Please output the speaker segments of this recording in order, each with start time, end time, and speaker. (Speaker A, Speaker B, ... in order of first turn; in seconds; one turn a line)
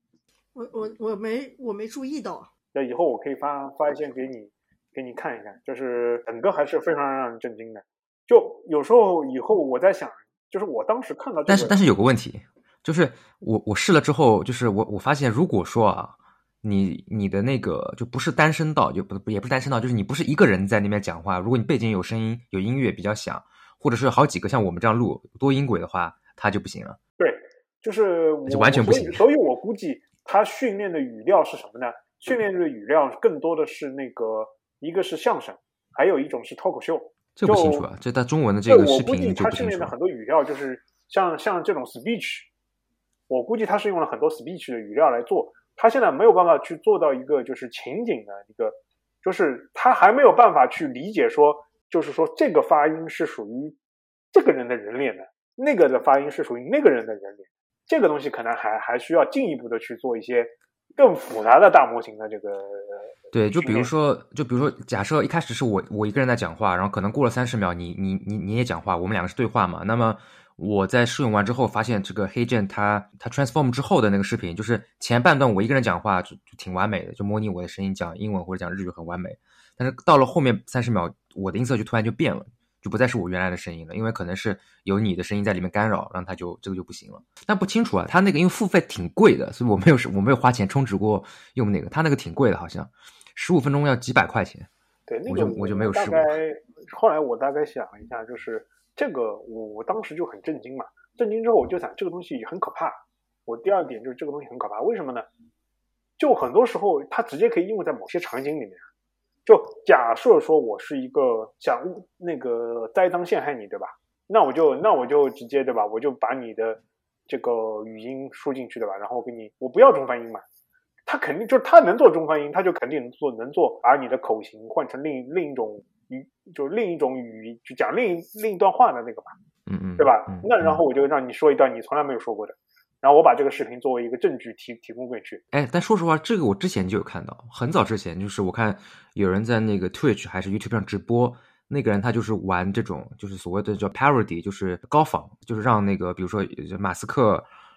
Speaker A: 0.6-2.5
Speaker B: 2.7-11.8
Speaker C: 11.5-27.0
Speaker B: 27.2-37.9
Speaker C: 28.5-29.2
Speaker C: 37.4-39.9
Speaker B: 38.7-42.5
Speaker B: 43.3-53.8
Speaker B: 54.3-63.9
Speaker C: 63.3-94.7
Speaker B: 95.1-105.2
Speaker C: 95.3-96.3
Speaker B: 106.2-108.8
Speaker B: 109.5-120.4
Speaker B: 121.1-129.3
Speaker C: 129.7-130.8
Speaker B: 130.0-135.4
Speaker C: 135.5-147.5